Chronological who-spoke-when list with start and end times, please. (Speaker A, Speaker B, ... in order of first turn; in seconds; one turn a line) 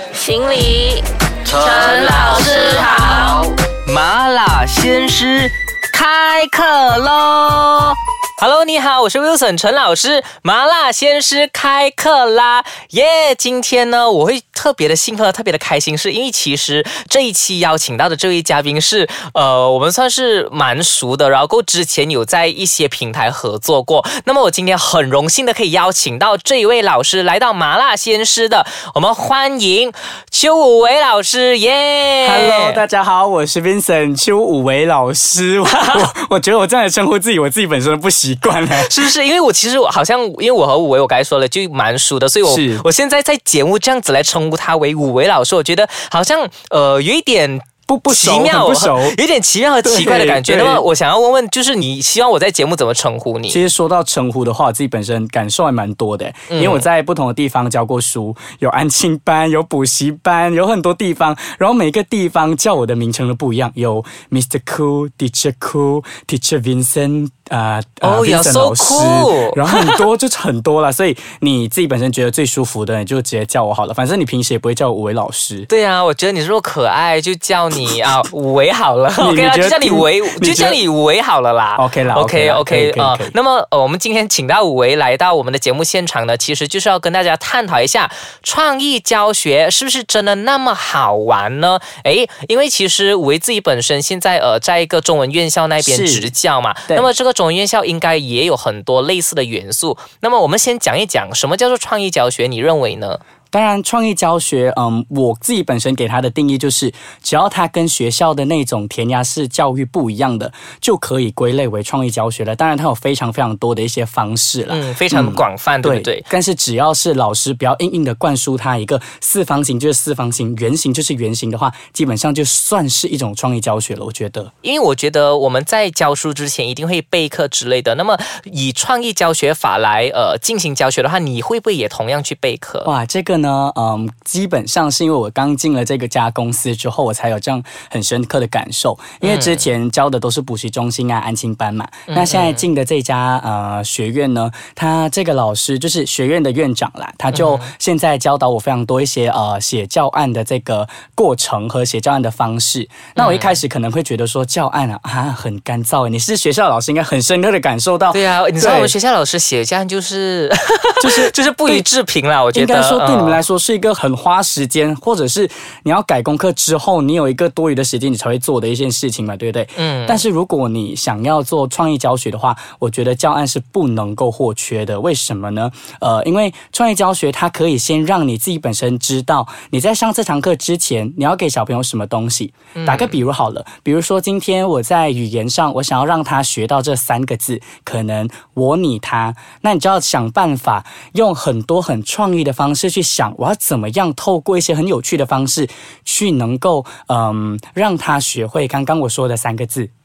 Speaker A: 0.1-1.0
Speaker B: 1.5-32.8
Speaker A: 1.6-3.0
Speaker C: 32.2-39.0
Speaker B: 35.6-36.1
Speaker B: 38.7-53.6
Speaker C: 42.5-42.8
Speaker C: 47.9-49.1
Speaker C: 49.8-50.8
Speaker C: 53.5-75.7
Speaker B: 56.5-56.8
Speaker B: 68.0-70.0
Speaker B: 75.7-103.2
Speaker C: 79.2-80.8
Speaker C: 81.8-83.3
Speaker C: 95.8-96.3
Speaker C: 103.5-124.5
Speaker B: 114.7-116.2
Speaker B: 124.6-132.9
Speaker C: 132.8-158.9
Speaker B: 139.2-139.7
Speaker B: 142.1-142.6
Speaker B: 147.3-147.7
Speaker B: 153.1-153.6
Speaker B: 158.1-163.4
Speaker C: 161.0-161.8
Speaker C: 162.5-199.9
Speaker B: 169.8-170.2
Speaker B: 182.7-183.2